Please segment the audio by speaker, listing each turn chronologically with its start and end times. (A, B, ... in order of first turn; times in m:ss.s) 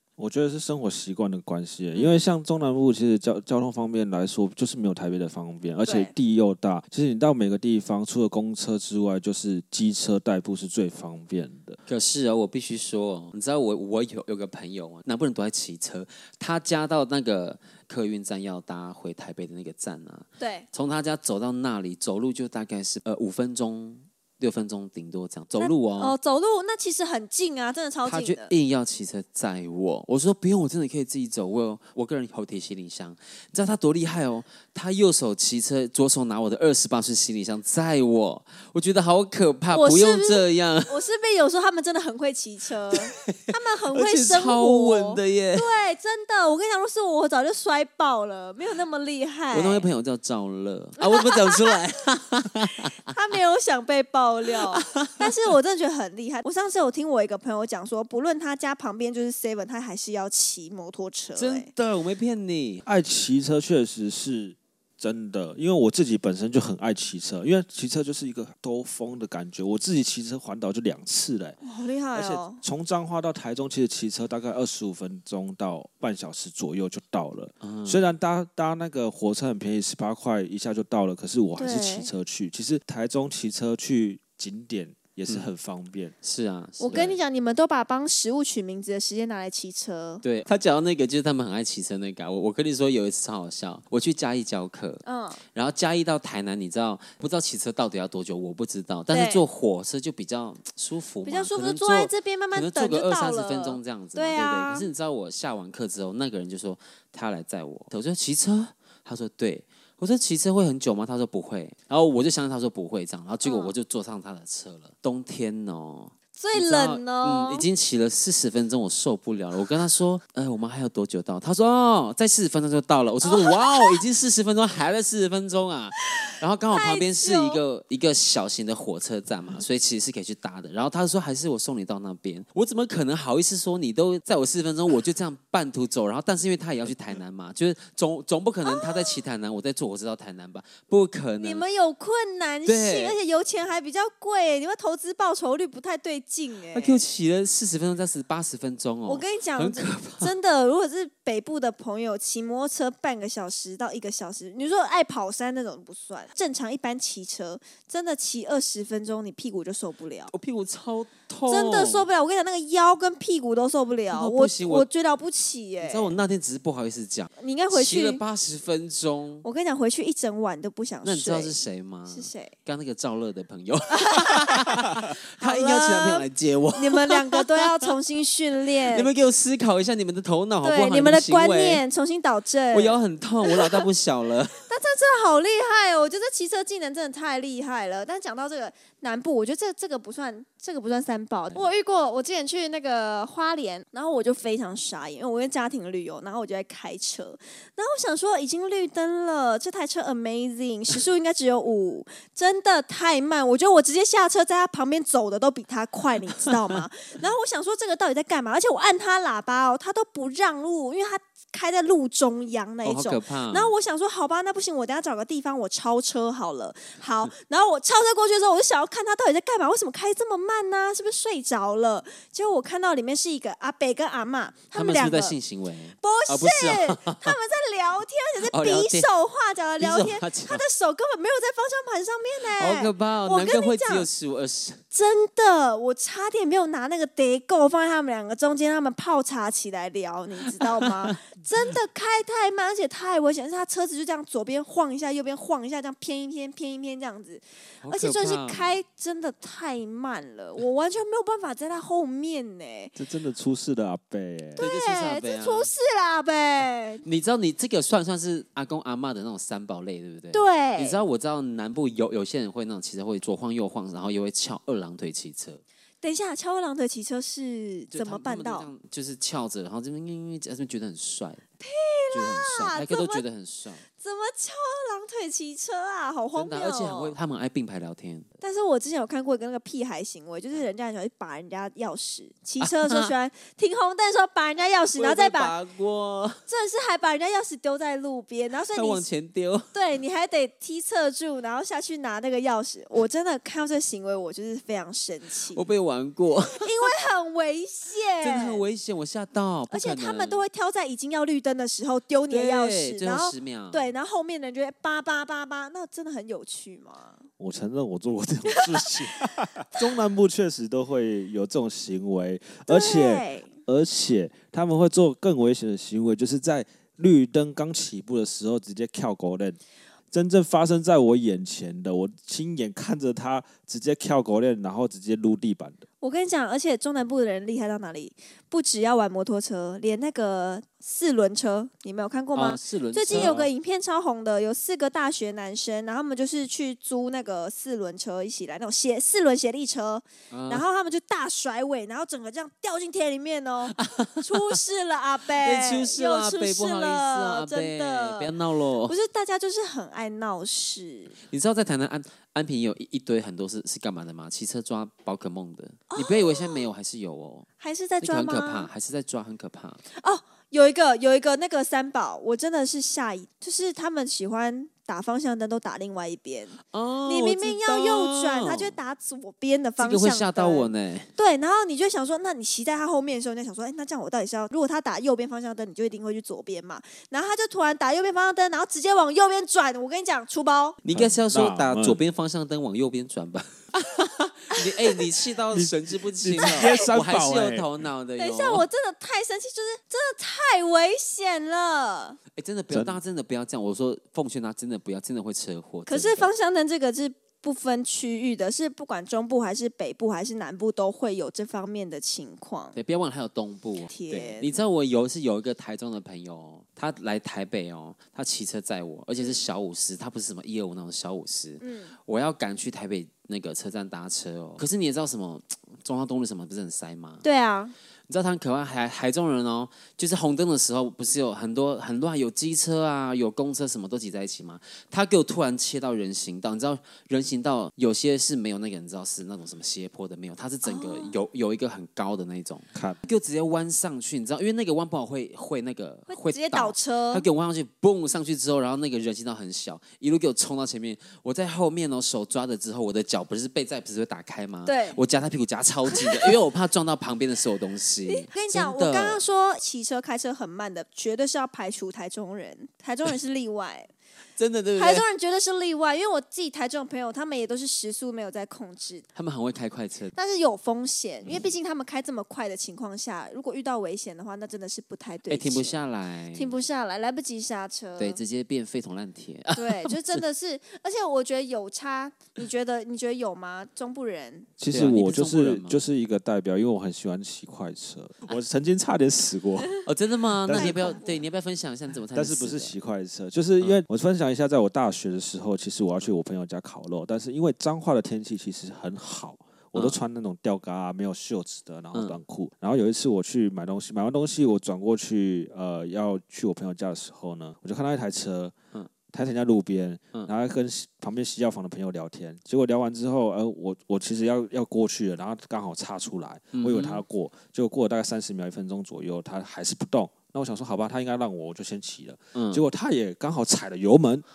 0:00.2-0:11.8 A
0:01.9-0:02.2 B
0:05.8-0:06.1 B
0:11.9-0:26.2 C
0:20.4-0:20.7 B
0:25.6-0:28.5 B
0:28.0-0:41.0 C
0:39.7-0:49.9 B
0:43.0-0:45.7 C
0:49.5-0:53.0 C
0:51.0-0:51.8 B
0:53.1-1:01.7 B
0:54.7-0:55.3 C
1:01.4-1:02.8 C
1:02.9-1:11.6 A
1:11.6-1:12.6 B
1:12.1-1:26.2 A
1:17.6-1:18.1 C
1:21.6-1:22.1 B
1:26.2-1:27.2 C
1:26.8-1:30.2 B
1:30.2-2:21.6 C
1:35.0-1:35.4 B
1:39.1-1:39.4 B
1:41.2-1:44.9 B
1:53.4-1:53.8 B
1:56.4-1:57.7 B
2:03.2-2:04.0 B
2:06.7-2:07.6 B
2:18.6-2:19.2 B
2:21.4-2:27.0 B
2:22.7-2:23.2 C
2:26.7-2:30.3 C
2:29.1-2:40.3 B
2:40.3-2:42.1 C
2:41.5-2:46.2 B
2:44.1-2:44.9 C
2:45.8-2:49.4 C
2:47.4-2:48.2 B
2:49.4-2:51.6 B
2:51.0-2:57.6 C
2:52.1-2:52.5 B
2:54.0-2:54.7 B
2:55.4-2:59.1 B
2:58.8-3:01.8 C
3:00.6-3:03.8 B
3:02.7-3:04.7 C
3:04.7-3:45.4 B
3:32.8-3:33.7 C
3:44.7-3:47.4 C
3:46.0-3:54.1 B
3:48.5-3:49.1 C
3:49.8-3:50.7 C
3:52.4-3:54.8 C
3:54.9-4:13.0 B
4:00.6-4:01.2 C
4:07.8-4:08.8 C
4:13.0-4:14.7 A
4:14.6-4:17.0 B
4:14.6-4:15.7 C
4:17.0-4:25.6 C
4:20.3-4:21.0 B
4:26.0-4:28.7 B
4:27.9-4:31.4 C
4:31.6-4:33.2 B
4:32.1-4:33.8 C
4:34.0-4:37.2 B
4:36.4-4:38.3 C
4:38.4-4:45.5 B
4:42.6-4:43.2 C
4:44.9-4:46.4 C
4:46.5-4:49.1 B
4:48.7-4:49.7 C
4:49.7-4:55.6 B
4:55.5-4:56.7 C
4:56.6-4:58.7 B
4:58.2-5:00.5 C
4:59.7-5:07.2 B
5:02.3-5:03.9 C
5:07.4-5:19.6 A
5:12.7-5:13.5 B
5:20.1-5:25.8 A
5:26.0-5:48.3 B
5:32.4-5:33.5 C
5:40.3-5:40.6 C
5:43.8-5:44.6 C
5:45.4-5:49.0 C
5:48.8-5:51.2 B
5:51.3-5:57.5 C
5:55.9-5:56.7 B
5:57.6-5:58.7 B
5:58.0-5:59.8 C
6:00.0-6:20.8 B
6:06.7-6:08.8 C
6:09.8-6:11.1 C
6:20.8-6:28.6 C
6:20.9-6:22.0 A
6:25.5-6:27.7 A
6:26.4-6:26.8 B
6:28.2-6:32.2 B
6:32.4-6:36.3 C
6:32.7-6:33.0 A
6:35.9-6:42.8 B
6:42.7-6:57.2 C
6:43.9-6:44.6 B
6:49.2-6:49.4 B
6:51.6-6:51.9 B
6:57.2-6:57.7 B
6:58.1-7:29.2 C
7:10.6-7:11.2 B
7:16.1-7:17.3 B
7:24.6-7:25.0 B
7:25.9-7:26.4 B
7:28.1-7:33.9 B
7:34.4-7:35.0 C
7:34.8-7:39.1 B
7:39.2-7:40.1 C
7:40.2-7:45.8 B
7:45.3-7:46.6 C
7:46.3-7:48.2 B
7:48.0-7:50.2 C
7:49.6-7:54.5 B
7:54.6-7:59.8 A
7:54.7-7:55.8 C
7:59.8-8:02.8 C
8:00.5-8:00.9 A
8:00.5-8:01.2 B
8:02.1-8:18.5 A
8:11.9-8:12.2 C
8:19.1-8:34.2 A
8:26.5-8:27.0 C
8:32.3-8:32.6 C